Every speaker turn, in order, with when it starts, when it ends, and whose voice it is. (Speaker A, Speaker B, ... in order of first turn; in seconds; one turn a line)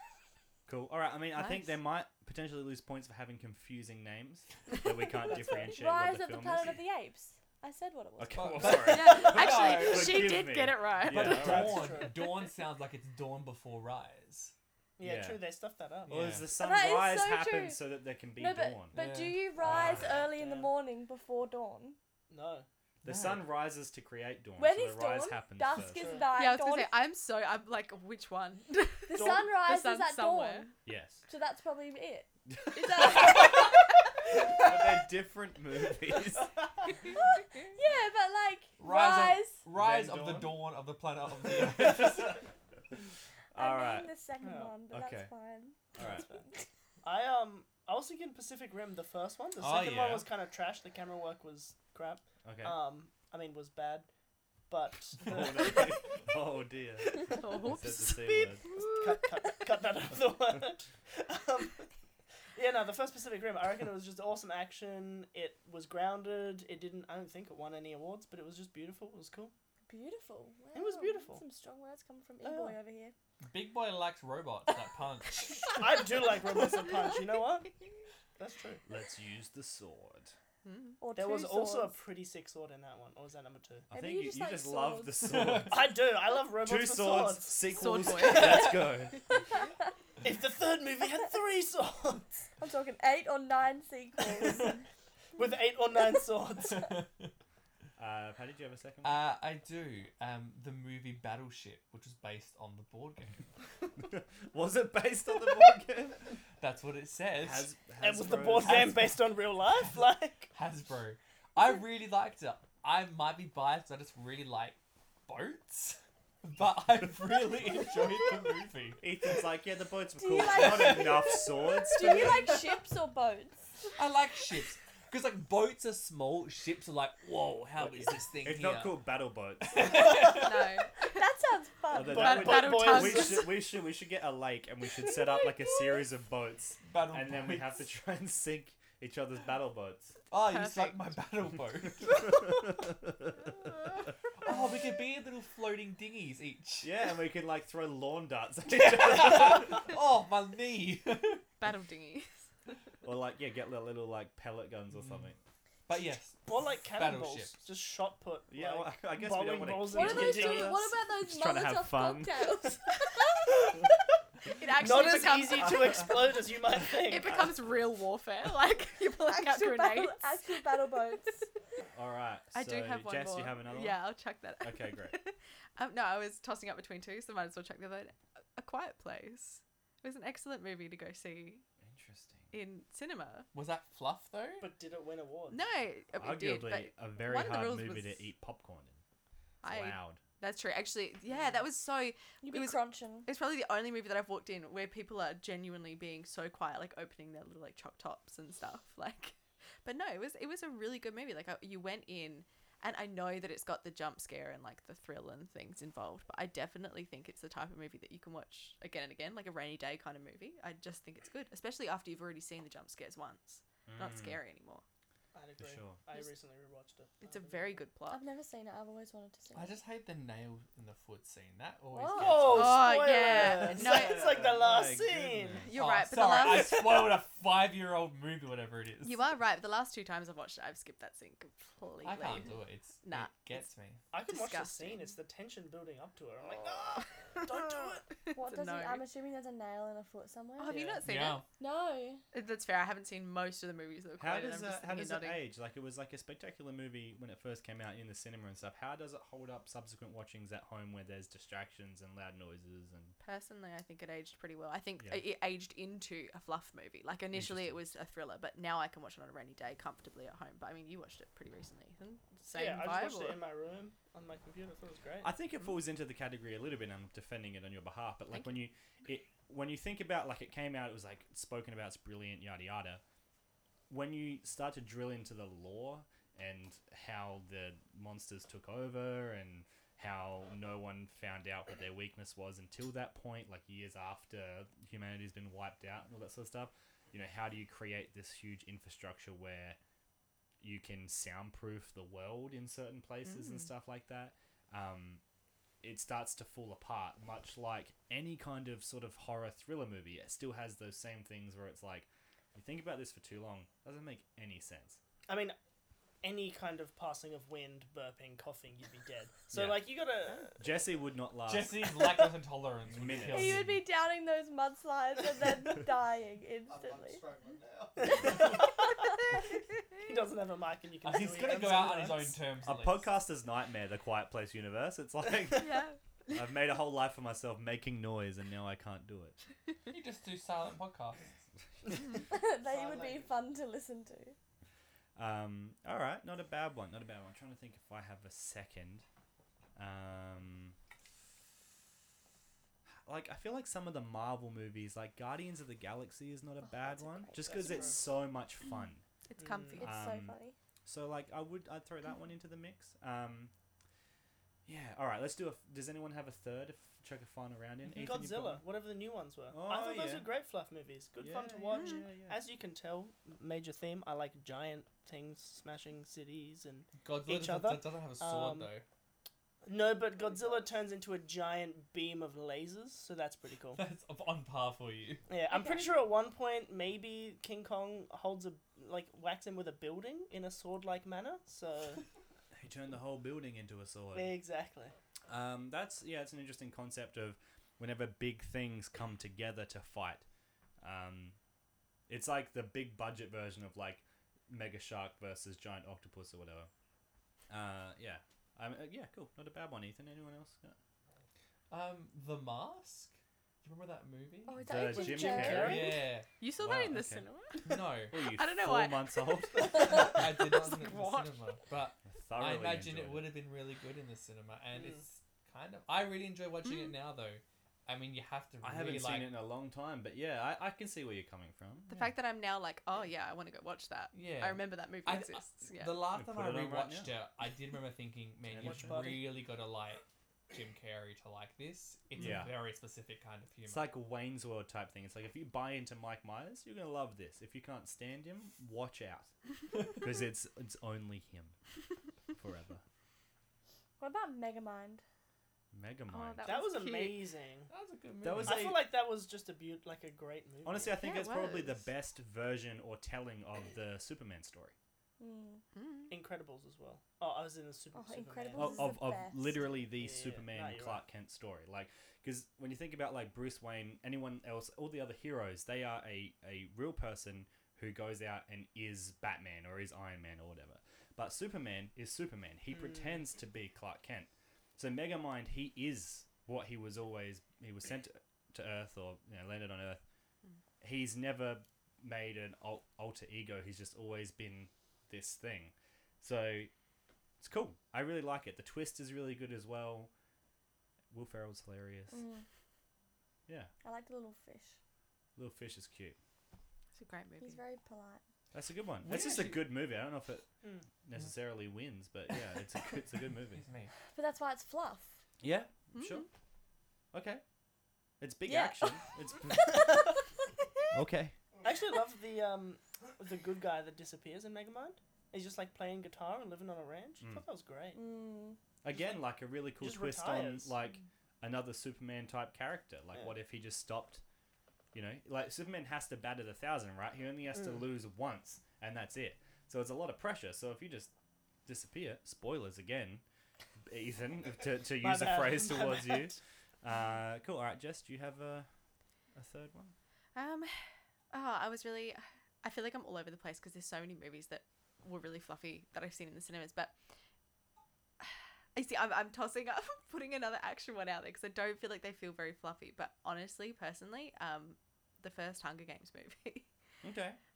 Speaker A: 0.7-6.8
Speaker B: 1.4-1.7
Speaker C: 5.2-5.7
Speaker D: 5.7-8.8
Speaker A: 8.2-12.0
Speaker E: 8.3-10.4
Speaker B: 8.7-11.4
Speaker E: 11.0-14.5
Speaker C: 11.2-12.3
Speaker C: 15.0-16.3
Speaker A: 15.0-15.4
Speaker E: 16.1-16.5
Speaker A: 16.1-19.0
Speaker D: 16.6-17.8
Speaker D: 18.4-22.0
Speaker E: 18.9-19.7
Speaker A: 19.6-20.1
Speaker C: 19.6-20.7
Speaker C: 22.3-22.7
Speaker A: 23.0-26.2
Speaker E: 23.0-23.5
Speaker D: 24.6-26.9
Speaker C: 25.8-26.3
Speaker B: 26.3-30.7
Speaker D: 29.1-30.8
Speaker C: 29.1-29.4
Speaker A: 30.8-31.2
Speaker D: 31.3-33.8
Speaker A: 32.5-33.7
Speaker A: 34.5-36.7
Speaker D: 37.7-39.6
Speaker E: 38.8-42.4
Speaker A: 39.7-40.6
Speaker A: 43.5-44.1
Speaker D: 43.5-46.6
Speaker C: 44.4-44.7
Speaker A: 44.9-45.3
Speaker A: 45.9-46.2
Speaker C: 47.0-54.1
Speaker E: 49.6-50.2
Speaker A: 52.4-52.8
Speaker C: 54.7-56.1
Speaker A: 55.2-58.7
Speaker B: 57.3-59.2
Speaker C: 58.7-61.9
Speaker C: 62.5-69.5
Speaker D: 69.9-73.1
Speaker C: 70.7-71.4
Speaker C: 72.4-72.8
Speaker E: 73.4-76.0
Speaker C: 75.7-77.7
Speaker C: 78.4-78.8
Speaker A: 78.9-80.3
Speaker B: 80.6-81.0
Speaker D: 81.0-82.0
Speaker C: 81.2-83.9
Speaker A: 83.9-85.9
Speaker D: 83.9-85.4
Speaker E: 85.2-85.8
Speaker C: 85.7-88.9
Speaker A: 86.6-89.2
Speaker B: 87.7-89.2
Speaker C: 90.2-92.5
Speaker D: 92.6-94.8
Speaker C: 94.4-94.6
Speaker C: 95.3-96.9
Speaker E: 96.6-97.3
Speaker A: 98.0-99.2
Speaker E: 99.0-103.5
Speaker A: 104.0-106.3
Speaker E: 106.6-107.7
Speaker A: 107.4-108.9
Speaker C: 108.0-110.5
Speaker E: 108.6-109.2
Speaker E: 110.5-119.0
Speaker A: 119.0-122.6
Speaker D: 120.2-123.6
Speaker E: 120.5-121.2
Speaker E: 122.0-122.6
Speaker E: 124.0-129.0
Speaker A: 127.8-130.1
Speaker E: 129.6-130.7
Speaker B: 130.2-131.2
Speaker D: 131.1-132.3
Speaker A: 131.9-140.2
Speaker C: 132.1-133.5
Speaker B: 132.1-133.5
Speaker D: 135.1-135.8
Speaker E: 136.8-137.7
Speaker E: 140.3-142.4
Speaker B: 140.3-141.1
Speaker A: 142.2-143.5
Speaker E: 143.7-146.9
Speaker A: 146.8-149.9
Speaker E: 148.7-151.4
Speaker B: 151.6-152.5
Speaker A: 153.0-155.4
Speaker E: 154.9-155.3
Speaker E: 155.9-157.7
Speaker C: 156.5-160.8
Speaker A: 158.5-162.5
Speaker D: 159.9-163.2
Speaker C: 164.4-167.5
Speaker B: 164.5-170.6
Speaker D: 169.2-171.5
Speaker A: 171.9-174.0
Speaker B: 172.5-181.6
Speaker A: 174.6-175.1
Speaker A: 181.8-182.5
Speaker B: 182.5-183.5
Speaker E: 183.5-184.7
Speaker C: 184.6-185.6
Speaker B: 185.5-188.2
Speaker A: 186.2-189.0
Speaker B: 189.6-214.8
Speaker A: 189.6-190.2
Speaker C: 191.3-191.6
Speaker D: 192.4-193.3
Speaker A: 213.9-214.4
Speaker C: 215.3-217.8
Speaker A: 215.6-216.0
Speaker B: 217.2-218.2
Speaker D: 218.1-219.8
Speaker E: 219.5-223.0
Speaker D: 221.9-222.5
Speaker C: 222.1-225.7
Speaker B: 222.5-224.4
Speaker A: 223.2-225.7
Speaker B: 225.6-227.1
Speaker E: 225.7-229.2
Speaker B: 229.0-233.6
Speaker E: 232.0-234.1
Speaker C: 234.1-238.1
Speaker B: 234.3-235.2
Speaker B: 237.5-239.0
Speaker D: 238.3-240.8
Speaker B: 240.6-241.4
Speaker C: 240.7-241.0
Speaker E: 241.0-241.4
Speaker D: 241.6-242.2
Speaker B: 242.3-245.4
Speaker A: 244.2-253.1
Speaker B: 253.2-263.4
Speaker A: 257.3-257.8
Speaker C: 262.5-265.3
Speaker A: 265.2-273.0
Speaker B: 268.3-268.6
Speaker A: 273.9-289.8
Speaker A: 290.6-295.2
Speaker B: 293.2-293.7
Speaker A: 295.8-305.0
Speaker C: 305.3-305.5
Speaker C: 306.2-310.8
Speaker A: 309.5-309.9
Speaker A: 310.5-311.9
Speaker E: 311.4-313.7
Speaker A: 312.9-313.8
Speaker D: 313.3-317.3
Speaker C: 318.0-319.2
Speaker C: 320.0-322.4
Speaker E: 321.0-323.1
Speaker A: 322.6-329.4
Speaker B: 325.5-326.4
Speaker E: 329.9-331.4
Speaker D: 332.3-334.3
Speaker A: 335.1-339.0
Speaker A: 339.8-340.8
Speaker A: 343.1-349.0
Speaker D: 346.6-347.9
Speaker C: 347.4-348.0
Speaker B: 349.3-349.9
Speaker C: 349.4-349.8
Speaker D: 349.8-350.6
Speaker A: 349.8-353.5
Speaker A: 354.6-358.6
Speaker C: 357.9-368.7
Speaker A: 359.5-360.3
Speaker A: 361.2-362.4
Speaker B: 361.7-362.1
Speaker E: 367.0-368.8
Speaker C: 369.6-373.8
Speaker E: 373.7-375.2
Speaker C: 375.3-382.0
Speaker D: 375.5-375.8
Speaker A: 382.5-384.3
Speaker C: 384.1-384.9
Speaker A: 385.3-390.2
Speaker A: 390.8-391.4
Speaker A: 392.1-396.7
Speaker A: 397.5-400.8
Speaker E: 401.7-404.7
Speaker D: 404.5-406.0
Speaker A: 404.6-405.9
Speaker C: 404.9-406.1
Speaker E: 405.3-406.3
Speaker B: 406.4-411.5
Speaker A: 406.6-407.2
Speaker E: 407.6-408.2
Speaker A: 408.1-410.1
Speaker E: 409.8-419.3
Speaker A: 412.1-413.3
Speaker C: 414.7-415.0
Speaker B: 416.6-417.0
Speaker A: 418.6-421.9
Speaker B: 421.9-426.0
Speaker E: 424.1-433.9
Speaker A: 426.1-427.1
Speaker A: 428.5-429.1
Speaker C: 428.6-429.4
Speaker A: 432.1-432.6
Speaker A: 433.7-439.3
Speaker A: 439.9-441.6
Speaker A: 442.4-442.8
Speaker D: 444.0-445.0
Speaker A: 445.7-446.5
Speaker B: 446.1-447.3
Speaker C: 446.4-447.7
Speaker E: 447.7-448.7
Speaker A: 448.2-448.8
Speaker C: 448.4-451.0
Speaker A: 450.6-454.7
Speaker B: 451.0-451.9
Speaker D: 455.2-455.6
Speaker B: 455.7-456.1
Speaker C: 456.1-458.9
Speaker D: 457.9-459.7
Speaker A: 458.5-480.0
Speaker C: 459.9-461.0
Speaker C: 472.7-473.2
Speaker A: 480.8-486.7
Speaker A: 487.4-490.1
Speaker A: 491.1-492.2
Speaker D: 492.1-492.4
Speaker D: 493.8-494.8
Speaker A: 495.4-496.2
Speaker B: 496.9-497.6
Speaker D: 497.4-498.2
Speaker A: 498.5-500.5
Speaker E: 499.0-499.7
Speaker A: 501.0-503.6
Speaker E: 503.6-503.9
Speaker D: 504.1-505.2
Speaker A: 505.4-506.3
Speaker B: 505.9-506.3
Speaker A: 507.1-507.4
Speaker A: 508.2-510.1
Speaker D: 508.4-509.0
Speaker A: 510.9-511.4
Speaker C: 511.6-518.0
Speaker D: 517.9-518.6
Speaker A: 518.8-524.2
Speaker C: 519.8-520.7
Speaker A: 524.9-531.1
Speaker A: 531.6-533.2
Speaker A: 533.9-538.7
Speaker C: 535.0-536.4
Speaker A: 539.3-539.9
Speaker B: 540.3-540.8
Speaker B: 541.3-546.9
Speaker B: 548.2-556.7
Speaker A: 557.0-557.4